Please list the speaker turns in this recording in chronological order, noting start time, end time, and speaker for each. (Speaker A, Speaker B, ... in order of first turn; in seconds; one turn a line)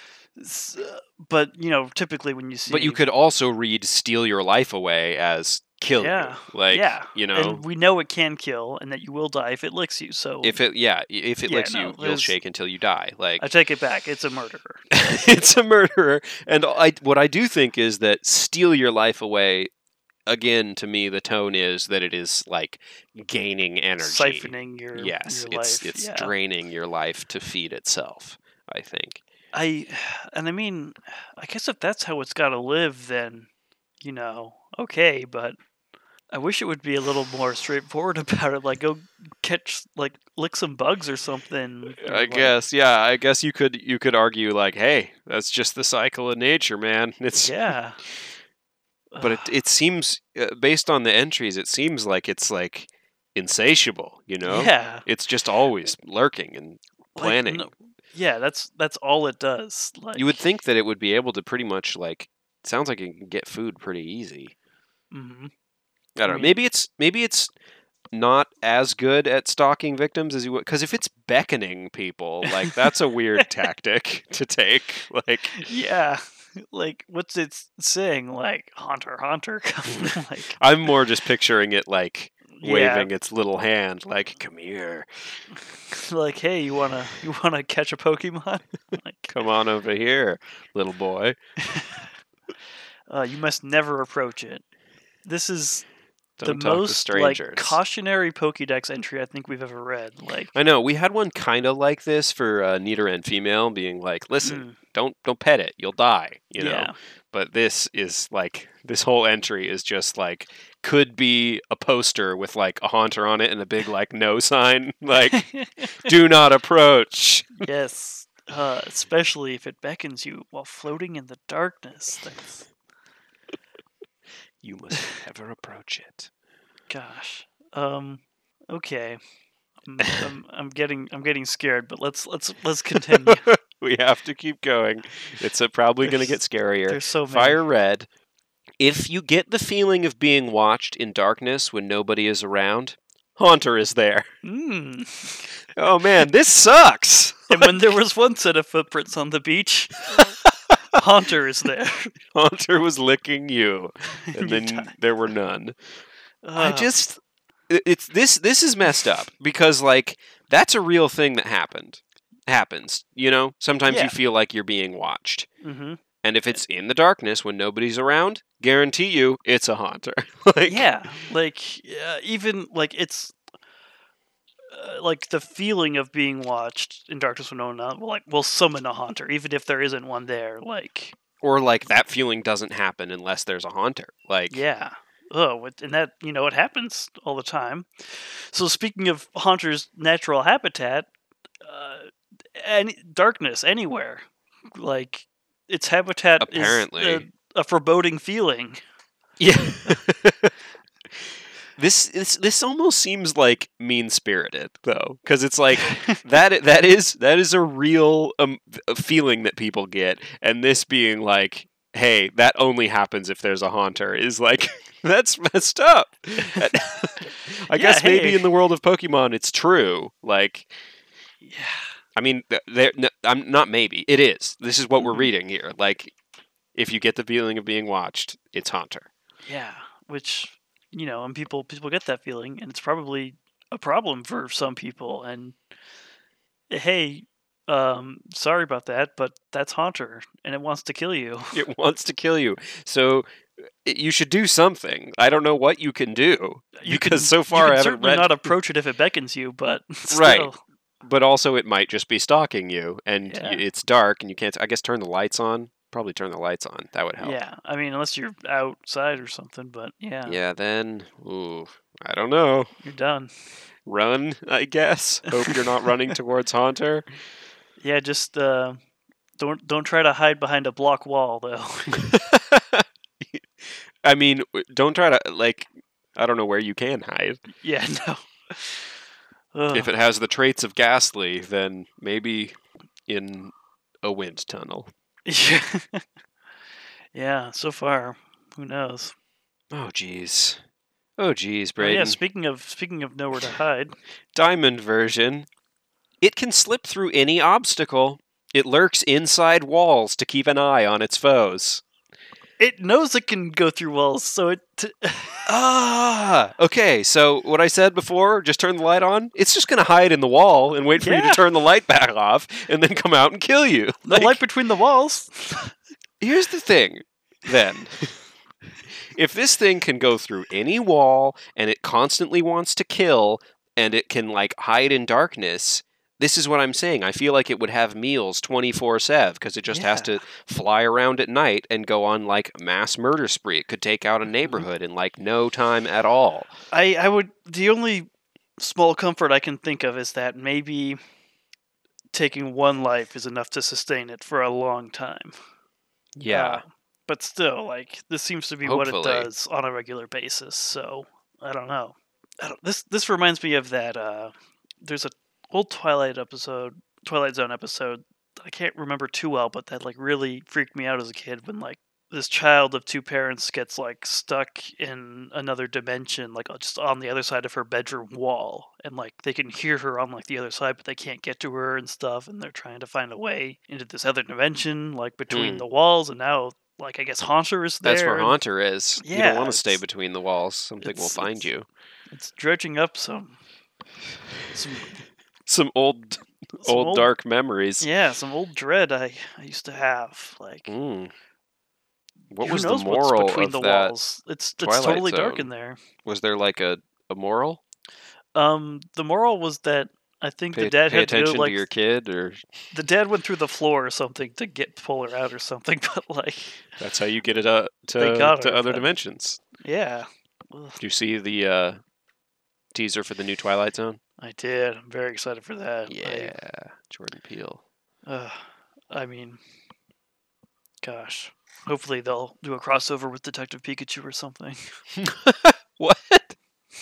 Speaker A: 0.4-3.0
Speaker B: 2.7-7.6
Speaker A: 6.0-10.6
Speaker B: 10.4-13.5
Speaker A: 11.5-12.3
Speaker A: 13.4-14.9
Speaker B: 14.9-19.7
Speaker B: 20.3-29.2
Speaker A: 24.0-26.3
Speaker A: 29.5-33.5
Speaker A: 34.0-35.6
Speaker A: 36.3-42.5
Speaker B: 42.0-47.6
Speaker A: 47.4-48.0
Speaker A: 49.1-49.5
Speaker B: 49.2-57.7
Speaker A: 54.4-55.1
Speaker A: 57.2-60.4
Speaker B: 60.1-64.5
Speaker A: 65.1-65.5
Speaker B: 66.2-67.5
Speaker A: 66.3-66.6
Speaker B: 68.1-75.7
Speaker A: 72.5-72.8
Speaker A: 75.5-80.6
Speaker B: 80.0-85.4
Speaker A: 82.5-83.1
Speaker A: 85.5-89.3
Speaker B: 89.3-91.4
Speaker A: 91.6-92.0
Speaker A: 93.1-94.6
Speaker A: 95.2-95.8
Speaker B: 96.4-97.8
Speaker A: 96.4-100.5
Speaker B: 100.5-115.4
Speaker A: 104.4-104.8
Speaker A: 106.6-107.0
Speaker A: 115.3-116.1
Speaker B: 115.9-117.7
Speaker A: 117.6-122.7
Speaker B: 124.6-126.3
Speaker A: 126.9-129.2
Speaker A: 129.8-133.5
Speaker B: 132.9-138.1
Speaker A: 136.0-136.3
Speaker A: 136.9-137.6
Speaker B: 138.8-144.3
Speaker A: 144.4-145.5
Speaker B: 145.7-147.8
Speaker A: 147.5-150.3
Speaker B: 150.1-151.0
Speaker A: 150.9-152.1
Speaker B: 152.3-155.8
Speaker A: 154.3-154.9
Speaker A: 156.4-156.9
Speaker B: 156.6-165.5
Speaker A: 163.9-164.1
Speaker A: 165.6-166.0
Speaker B: 166.2-170.9
Speaker A: 170.7-173.3
Speaker A: 174.7-181.2
Speaker B: 181.4-184.6
Speaker A: 184.5-191.1
Speaker A: 191.6-198.8
Speaker B: 196.4-197.3
Speaker B: 199.4-200.5
Speaker B: 201.8-220.7
Speaker A: 205.9-206.2
Speaker A: 217.7-218.4
Speaker A: 221.4-221.9
Speaker B: 222.2-226.1
Speaker A: 225.0-225.3
Speaker B: 226.8-229.1
Speaker A: 229.5-235.6
Speaker A: 236.7-241.6
Speaker B: 241.5-243.3
Speaker B: 243.8-248.5
Speaker A: 246.8-250.6
Speaker B: 250.1-250.5
Speaker B: 251.0-257.4
Speaker A: 253.3-253.6
Speaker A: 257.2-260.4
Speaker B: 260.3-262.7
Speaker A: 262.8-263.3
Speaker B: 263.9-267.1
Speaker A: 265.3-265.6
Speaker A: 267.8-268.8
Speaker A: 269.4-272.1
Speaker B: 271.9-277.4
Speaker A: 277.6-278.9
Speaker A: 279.5-279.9
Speaker B: 279.7-284.9
Speaker A: 285.3-286.0
Speaker A: 287.1-289.1
Speaker B: 289.7-290.6
Speaker B: 291.2-292.2
Speaker A: 291.8-293.9
Speaker B: 294.3-295.5
Speaker B: 296.2-301.8
Speaker A: 302.6-305.5
Speaker B: 305.5-314.4
Speaker A: 311.0-311.4
Speaker A: 314.0-315.7
Speaker B: 316.2-318.1
Speaker B: 319.1-336.5
Speaker A: 329.7-330.2
Speaker A: 336.7-341.0
Speaker A: 342.1-345.3
Speaker B: 346.2-346.6
Speaker A: 346.3-378.4
Speaker B: 348.6-349.3
Speaker B: 375.3-375.6
Speaker B: 377.8-381.7
Speaker A: 379.0-379.8
Speaker A: 380.8-381.5
Speaker A: 382.1-383.4
Speaker A: 384.5-385.0
Speaker B: 385.5-387.9
Speaker A: 386.6-387.1
Speaker A: 387.8-390.7
Speaker B: 390.7-391.1
Speaker B: 392.3-393.9
Speaker A: 392.4-395.8
Speaker B: 394.6-395.5
Speaker B: 396.1-397.6
Speaker A: 398.4-401.6
Speaker B: 400.5-402.5
Speaker A: 402.7-406.8
Speaker B: 406.8-409.4
Speaker A: 408.0-408.9
Speaker A: 409.6-410.8
Speaker B: 410.8-411.8
Speaker B: 412.7-414.0
Speaker A: 414.2-416.4
Speaker B: 415.9-417.6
Speaker A: 418.1-419.4
Speaker A: 420.8-424.6
Speaker B: 425.0-426.4